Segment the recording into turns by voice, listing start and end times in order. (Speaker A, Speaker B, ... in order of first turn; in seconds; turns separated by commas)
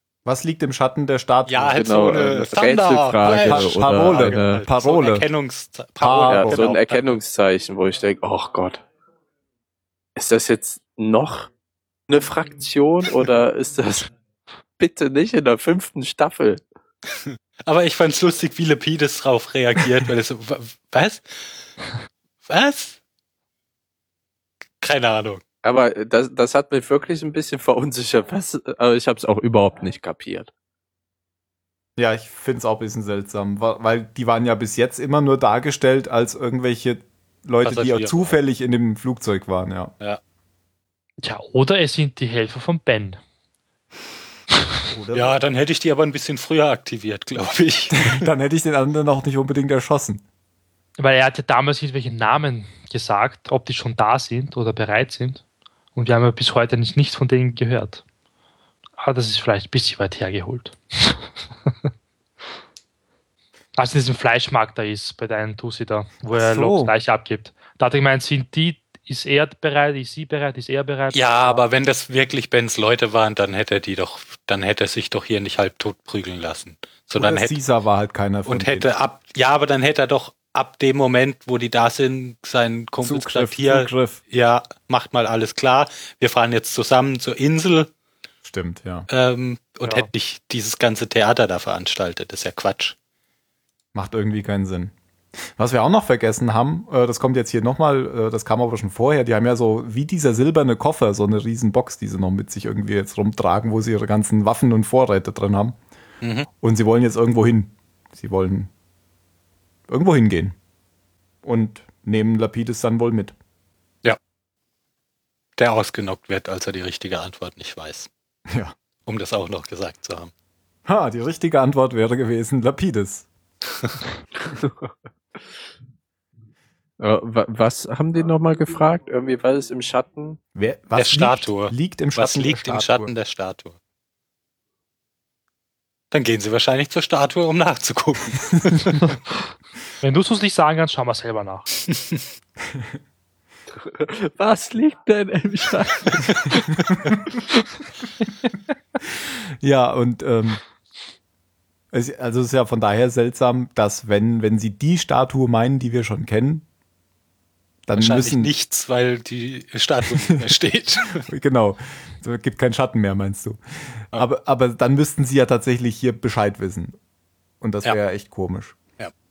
Speaker A: 0.2-2.2, Speaker B: 1.5-7.2, Speaker C: 1.8-4.6, Speaker A: 3.4-5.3, Speaker A: 6.0-6.7, Speaker C: 6.3-8.8, Speaker C: 10.2-11.5, Speaker C: 12.1-14.1, Speaker C: 14.8-16.6, Speaker B: 17.2-21.7, Speaker B: 22.5-23.0, Speaker B: 24.8-25.4, Speaker C: 25.6-30.5, Speaker A: 32.0-39.9, Speaker B: 37.6-38.4, Speaker D: 41.2-43.2, Speaker A: 44.9-45.4, Speaker B: 45.1-48.1, Speaker A: 48.0-50.2, Speaker D: 51.0-55.4, Speaker D: 56.0-58.0, Speaker D: 59.0-61.3, Speaker D: 63.8-71.6, Speaker A: 66.3-66.9, Speaker B: 71.1-77.5, Speaker A: 77.2-78.9, Speaker B: 78.5-87.9, Speaker A: 83.0-84.2, Speaker A: 88.4-89.1, Speaker B: 89.1-93.0, Speaker A: 93.9-94.9, Speaker A: 95.5-105.8, Speaker B: 106.2-106.5, Speaker A: 106.6-108.7, Speaker A: 109.9-110.5, Speaker A: 111.4-113.3, Speaker B: 115.6-118.1, Speaker A: 118.5-118.7, Speaker B: 119.0-120.3, Speaker A: 120.8-123.3, Speaker C: 124.5-124.9, Speaker C: 127.0-130.4, Speaker A: 130.5-133.1, Speaker B: 130.9-133.8, Speaker B: 136.1-139.1, Speaker D: 140.0-141.7, Speaker B: 141.9-142.2, Speaker C: 143.8-146.5, Speaker A: 149.6-150.6, Speaker A: 151.9-156.6, Speaker A: 157.8-158.5, Speaker B: 157.9-161.3, Speaker A: 161.2-167.0, Speaker A: 167.6-168.8